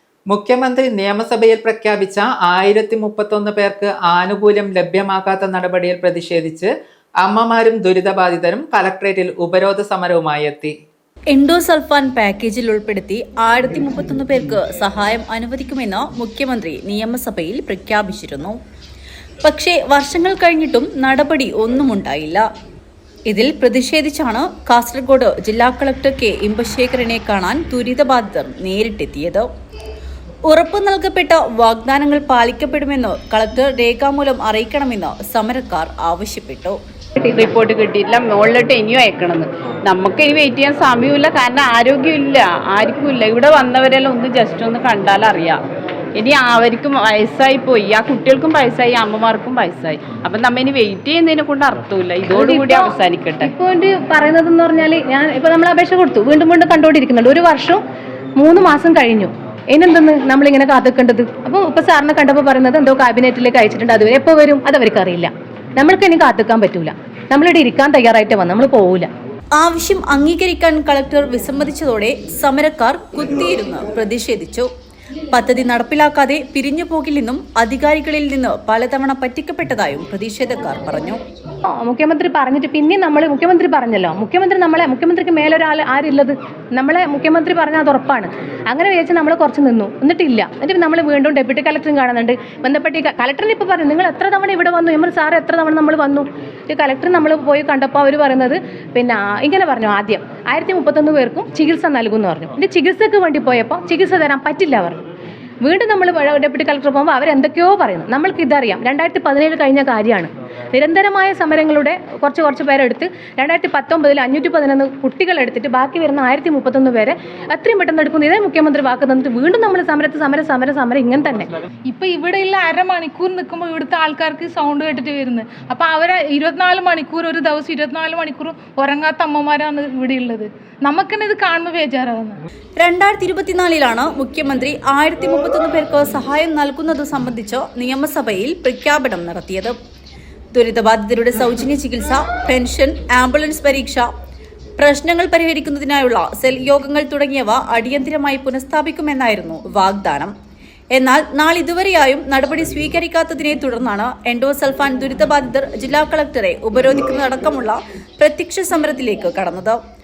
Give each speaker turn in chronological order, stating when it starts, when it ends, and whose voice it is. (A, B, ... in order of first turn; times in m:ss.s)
0:00.3-0:06.7 A
0:07.2-0:10.7 A
0:11.3-0:18.6 B
0:19.4-0:22.4 B
0:23.3-0:29.5 B
0:30.5-0:36.8 B
0:37.2-0:45.6 C
0:46.2-0:53.5 C
0:52.3-0:57.8 D
0:58.4-1:09.1 D
1:09.6-1:14.7 B
1:15.3-1:21.2 B
1:21.8-1:45.0 D
1:45.6-2:01.5 D
2:01.9-2:12.4 E
2:12.8-2:19.7 B
2:20.5-2:24.0 B
2:24.8-2:30.3 B
2:30.9-2:39.8 B